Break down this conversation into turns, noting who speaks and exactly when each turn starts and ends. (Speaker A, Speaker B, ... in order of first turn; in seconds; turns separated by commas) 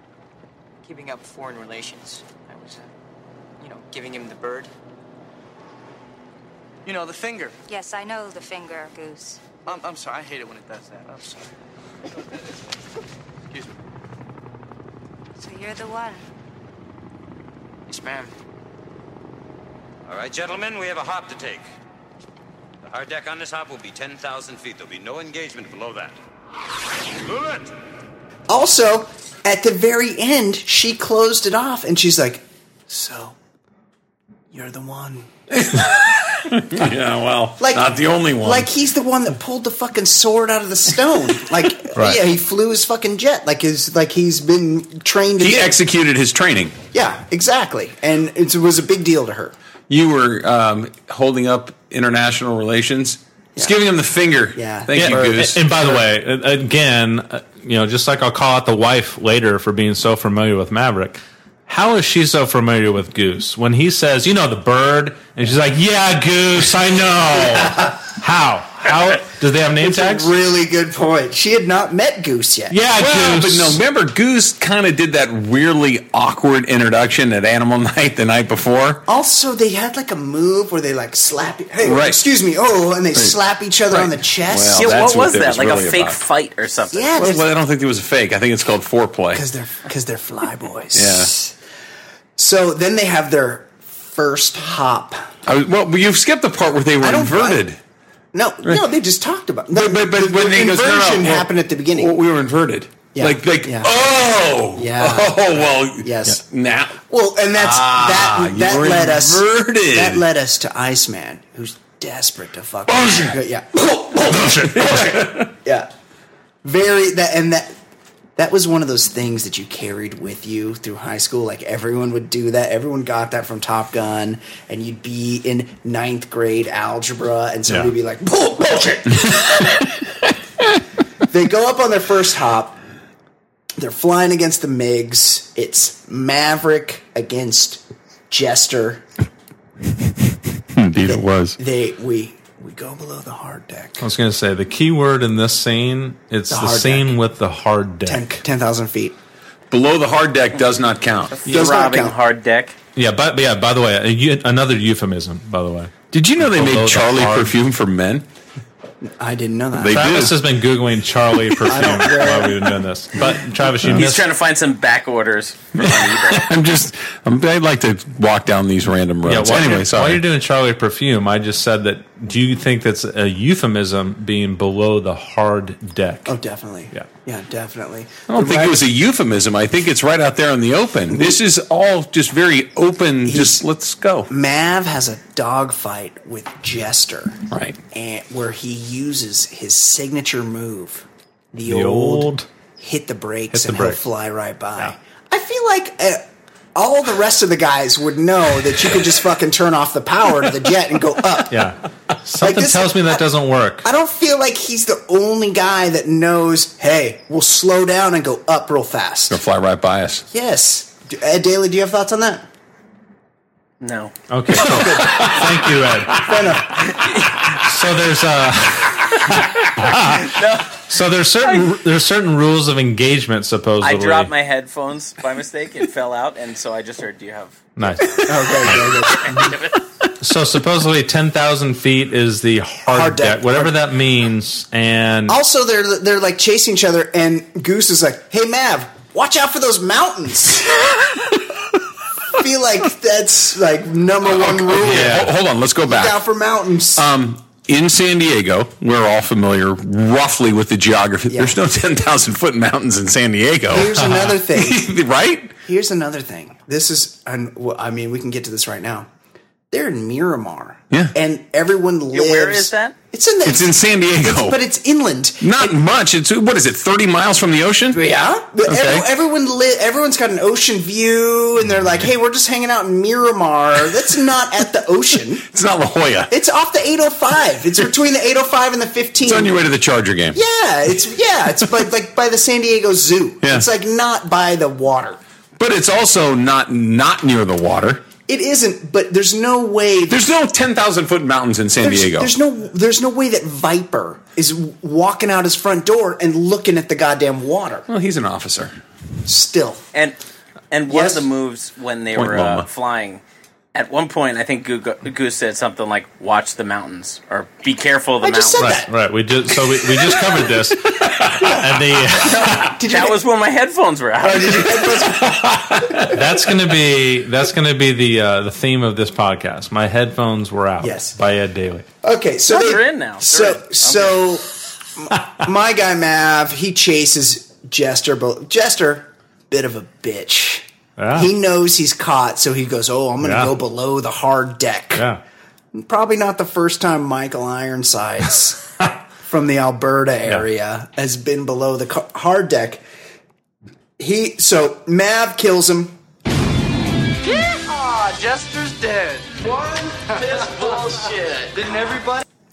Speaker A: 0.8-2.9, Speaker A: 3.6-4.7, Speaker B: 6.8-7.6, Speaker C: 7.7-9.5, Speaker B: 9.7-11.5, Speaker B: 13.5-13.8, Speaker C: 15.4-16.2, Speaker A: 17.9-18.3, Speaker D: 20.1-21.6, Speaker D: 22.8-26.2, Speaker D: 27.2-27.7, Speaker E: 28.5-33.4, Speaker E: 34.5-35.3, Speaker F: 35.5-38.7, Speaker E: 37.6-45.8, Speaker G: 42.0-42.2, Speaker F: 45.4-46.8, Speaker E: 46.9-49.5, Speaker F: 49.9-56.0, Speaker E: 54.5-55.3, Speaker G: 54.9-70.3, Speaker E: 67.4-67.9, Speaker E: 69.8-72.8, Speaker G: 72.7-73.8, Speaker F: 73.0-79.1, Speaker E: 79.1-85.0, Speaker F: 81.8-82.2, Speaker F: 83.9-86.2, Speaker H: 84.8-87.4, Speaker E: 86.9-87.5, Speaker F: 87.2-89.5, Speaker E: 89.3-91.6, Speaker F: 90.9-91.3, Speaker E: 92.4-95.3, Speaker F: 95.5-97.8, Speaker E: 97.0-97.7, Speaker E: 98.3-102.2, Speaker F: 99.7-107.0, Speaker E: 103.2-103.9, Speaker E: 104.7-106.4, Speaker E: 107.1-113.8, Speaker F: 107.6-110.2, Speaker F: 112.9-115.5, Speaker E: 114.8-115.9, Speaker E: 116.6-117.8, Speaker E: 118.4-129.8, Speaker E: 131.3-132.8, Speaker E: 133.8-139.0, Speaker F: 140.7-141.6, Speaker E: 141.0-144.1, Speaker G: 144.0-148.3, Speaker E: 146.5-147.2, Speaker E: 148.1-149.2, Speaker F: 149.7-151.4, Speaker H: 151.3-152.8, Speaker E: 151.5-152.2, Speaker G: 152.9-157.5, Speaker F: 156.1-158.3, Speaker E: 159.0-160.1, Speaker F: 159.8-160.4, Speaker G: 159.9-164.3, Speaker F: 161.7-162.1, Speaker E: 161.7-162.7, Speaker H: 163.9-166.5, Speaker F: 165.8-170.2, Speaker G: 169.3-176.4, Speaker E: 176.3-178.9, Speaker F: 178.3-184.3, Speaker E: 181.1-181.4, Speaker E: 183.2-183.6, Speaker E: 184.3-187.4, Speaker F: 187.5-187.8, Speaker E: 187.9-201.8, Speaker G: 191.7-192.5, Speaker G: 193.5-194.0, Speaker G: 201.5-203.9, Speaker E: 202.4-203.3, Speaker E: 203.8-209.4, Speaker F: 209.3-210.2, Speaker E: 210.3-212.5, Speaker H: 213.8-214.1, Speaker G: 214.3-216.3, Speaker E: 214.5-215.4, Speaker F: 214.6-215.5, Speaker E: 216.1-217.0, Speaker G: 217.5-220.4, Speaker H: 220.2-220.8, Speaker G: 220.9-224.3, Speaker H: 221.4-221.7, Speaker H: 223.8-227.6, Speaker G: 227.8-228.8, Speaker E: 228.3-229.6, Speaker H: 229.3-229.8, Speaker G: 230.2-235.4, Speaker E: 232.9-233.8, Speaker E: 235.3-240.9, Speaker E: 242.3-245.3, Speaker F: 244.2-246.2, Speaker G: 244.9-245.3, Speaker E: 245.8-247.1, Speaker F: 247.0-255.5, Speaker E: 251.3-251.6, Speaker E: 253.7-254.9, Speaker E: 255.7-259.1, Speaker E: 259.7-265.8, Speaker H: 262.1-262.9, Speaker F: 263.4-264.6, Speaker F: 265.4-268.0, Speaker E: 267.9-275.5, Speaker F: 268.7-269.1, Speaker F: 275.5-276.3, Speaker E: 276.3-279.6, Speaker F: 279.2-280.4, Speaker E: 280.3-285.2, Speaker F: 285.6-288.0, Speaker E: 288.3-290.3, Speaker F: 290.1-292.3, Speaker E: 291.8-297.9, Speaker F: 297.9-298.8, Speaker E: 299.3-299.9, Speaker H: 300.7-303.2, Speaker E: 300.9-301.2, Speaker F: 302.2-302.7, Speaker H: 303.7-308.7, Speaker E: 308.2-308.9, Speaker G: 308.6-312.8, Speaker F: 311.2-311.5, Speaker E: 311.4-313.2, Speaker H: 312.9-315.0, Speaker E: 314.2-316.2, Speaker F: 315.2-316.1, Speaker G: 316.1-321.9, Speaker E: 320.8-321.2, Speaker E: 322.0-335.1, Speaker H: 322.5-324.2, Speaker G: 331.0-331.3, Speaker G: 333.2-333.5, Speaker G: 334.9-335.2, Speaker E: 335.7-342.8, Speaker E: 344.0-346.0, Speaker B: 347.2-352.2